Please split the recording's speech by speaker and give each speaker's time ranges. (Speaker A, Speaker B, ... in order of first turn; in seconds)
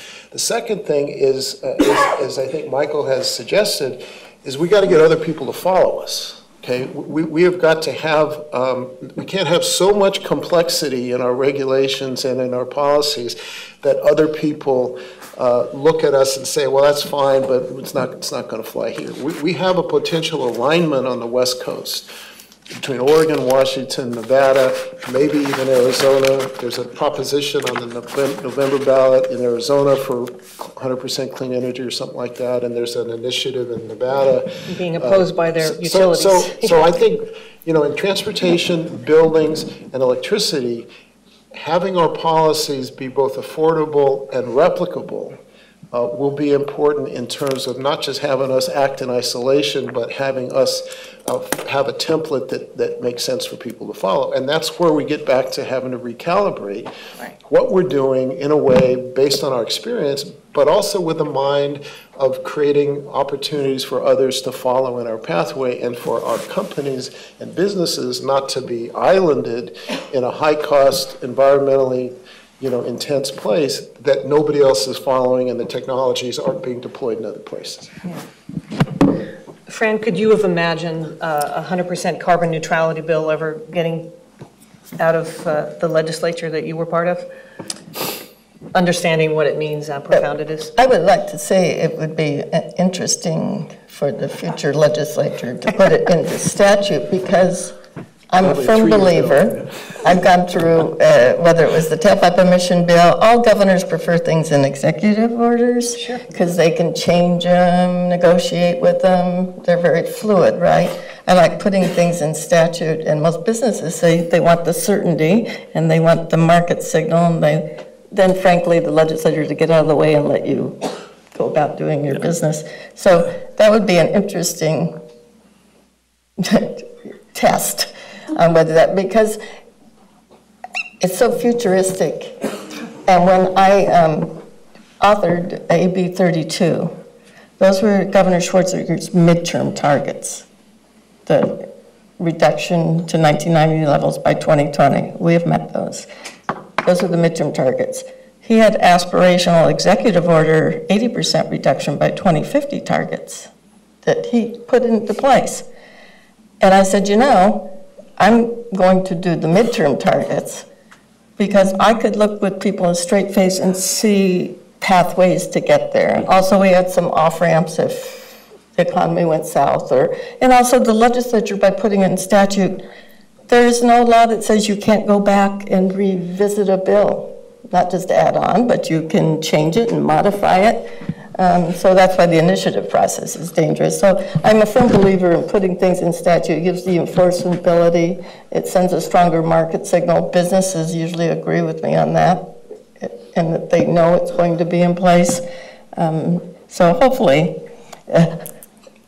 Speaker A: 0.3-22.1, 22.8-40.9, 41.5-45.4, 45.9-56.9, 57.5-77.9, 98.4-99.7
Speaker B: 34.7-36.8, 79.7-84.1, 85.0-87.3, 88.7-90.7, 106.0-106.2
Speaker C: 90.8-97.7, 98.3-125.0, 126.4-129.4, 131.0-132.5, 133.1-134.4, 135.0-136.9, 137.6-140.4, 141.3-146.1, 146.8-153.5, 154.0-155.7, 156.6-160.7, 161.4-172.8, 173.5-195.4, 196.0-198.4